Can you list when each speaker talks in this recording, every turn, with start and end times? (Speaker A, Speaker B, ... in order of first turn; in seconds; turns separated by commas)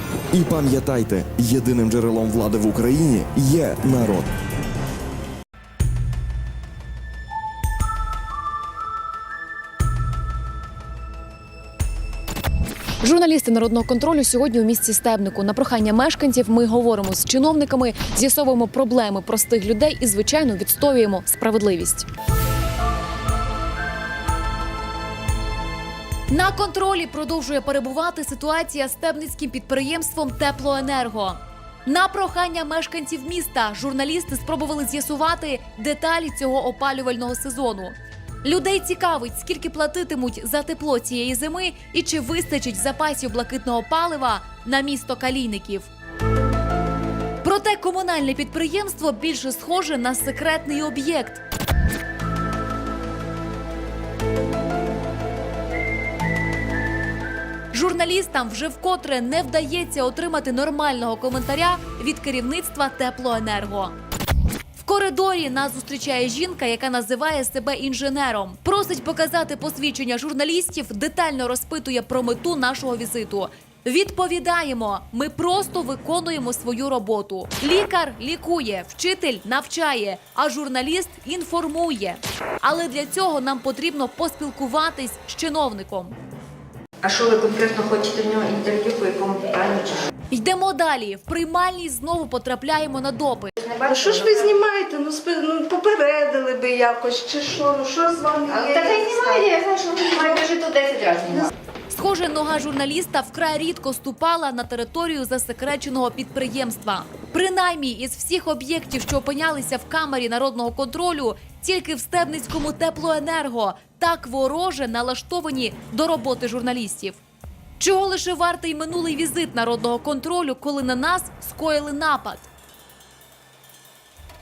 Speaker A: 0.3-4.3, Speaker B: 13.0-22.1, Speaker B: 26.3-45.9, Speaker B: 47.4-51.4, Speaker B: 57.7-63.9, Speaker B: 64.7-86.2, Speaker C: 87.0-90.1, Speaker B: 90.3-93.5, Speaker C: 93.6-94.5, Speaker D: 93.8-99.4, Speaker C: 98.5-101.5, Speaker B: 101.9-117.2, Speaker B: 117.8-122.5